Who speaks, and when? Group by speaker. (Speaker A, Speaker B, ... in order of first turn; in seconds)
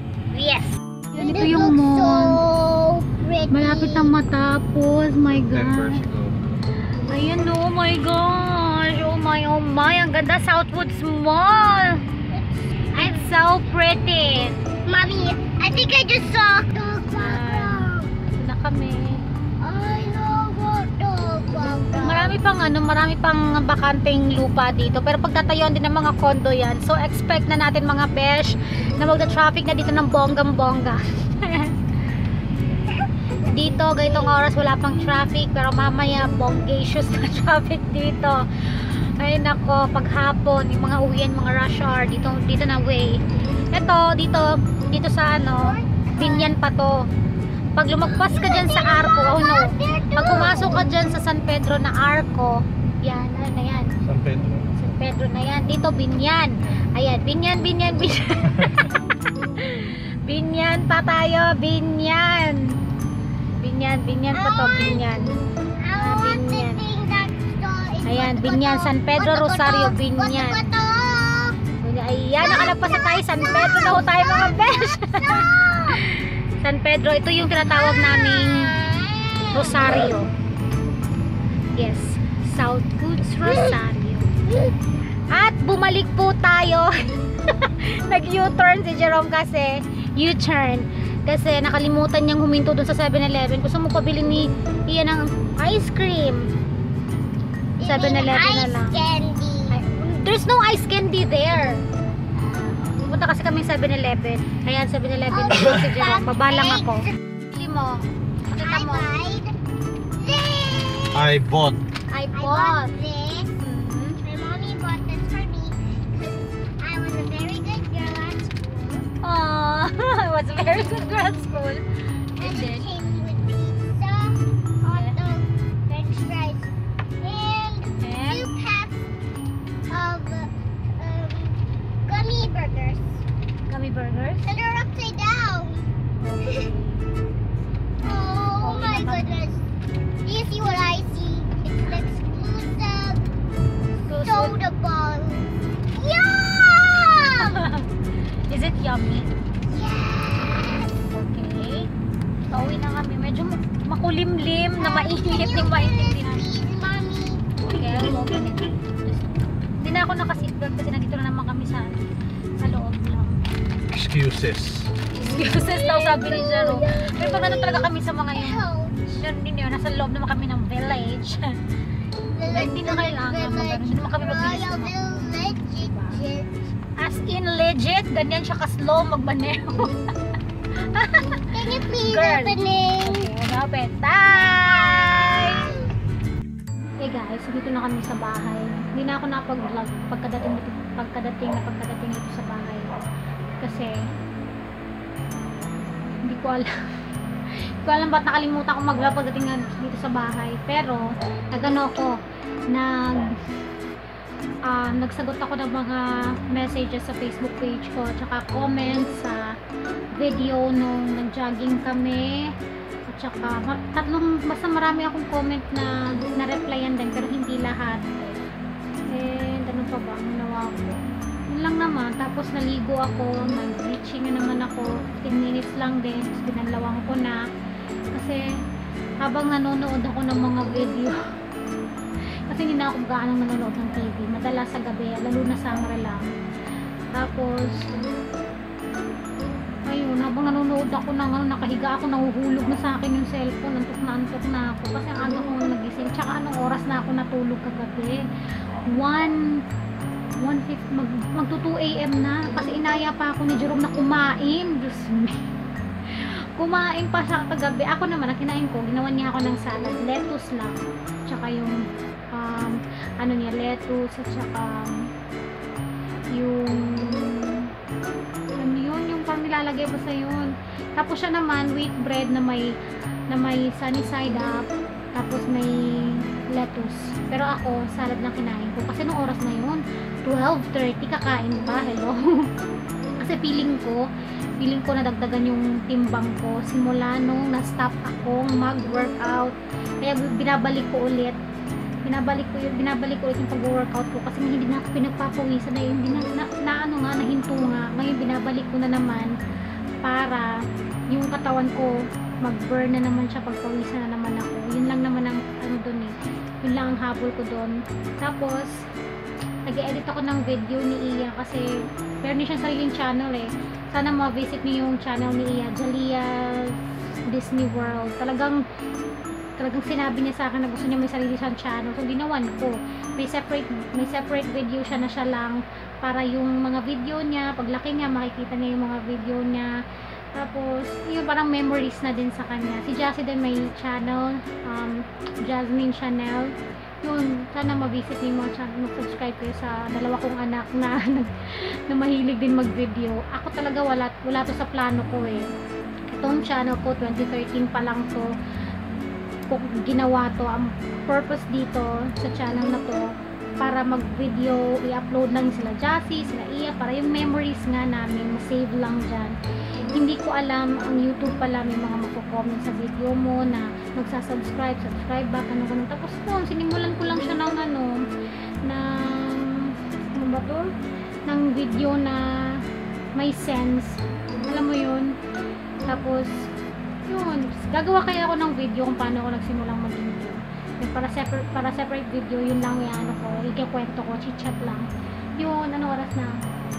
Speaker A: 0.3-2.4, 3.5-6.0, 7.1-12.0, 12.9-14.6, 17.2-19.2, 22.0-31.7, 33.5-43.2, 43.7-47.0, 47.8-53.9, 54.8-59.0, 59.5-62.7, 63.6-65.3, 66.0-66.8, 68.0-70.7, 71.8-78.7, 79.5-80.3, 81.8-84.3, 85.3-96.5, 97.8-99.0, 99.7-101.8, 102.9-109.1, 112.1-112.9, 113.6-114.2, 119.2-121.8, 122.4-122.9, 124.9-125.2, 128.0-128.5, 133.7-134.5, 136.2-137.0, 138.6-139.4, 144.1-144.6, 147.3-147.9, 148.5-149.3, 151.1-151.9, 152.5-156.5, 157.7-162.0, 162.6-163.4, 165.1-171.6, 172.5-176.2, 177.0-179.9, 180.9-185.8, 187.0-192.9, 193.6-193.9, 196.2-196.7, 197.8-202.2, 202.7-203.4, 204.7-209.5, 210.2-212.5, 213.1-218.2, 219.1-227.4, 228.1-228.4, 229.2-231.2, 232.5-236.3, 237.2-237.8, 239.9-248.2, 248.9-249.4, 250.4-255.4, 256.1-261.8, 262.3-265.1, 266.3-267.7, 268.6-272.7, 273.3-282.2, 283.2-284.1, 284.6-291.4, 292.1-299.3, 300.0-300.5, 301.1-308.8, 309.7-311.7, 312.2-316.8, 317.3-318.6, 319.6-329.7, 330.4-345.4, 346.1-348.3, 349.5-353.1, 353.6-359.4, 359.9-368.0, 368.6-370.7, 371.3-372.6, 373.2-375.1, 375.9-376.5, 377.1-384.9, 385.4-386.3
Speaker B: 1.1-4.1, 12.3-13.3, 14.8-18.1, 19.6-22.4, 33.4-34.4, 45.4-46.5, 48.1-50.9, 64.3-65.0, 65.8-71.6, 72.4-76.0, 77.6-80.2, 83.4-83.8, 97.8-99.8, 105.3-107.1, 108.6-109.5, 110.2-111.3, 112.3-113.5, 114.2-119.1, 120.6-121.1, 122.4-126.7, 127.2-129.1, 129.9-133.2, 134.4-135.9, 138.0-139.6, 140.2-143.2, 144.1-147.6, 149.7-151.0, 154.8-158.1, 165.7-169.0, 172.3-176.6, 181.5-183.3, 184.4-185.8
Speaker C: 5.2-6.5, 54.0-54.7, 58.5-58.9, 111.1-111.8, 163.9-164.9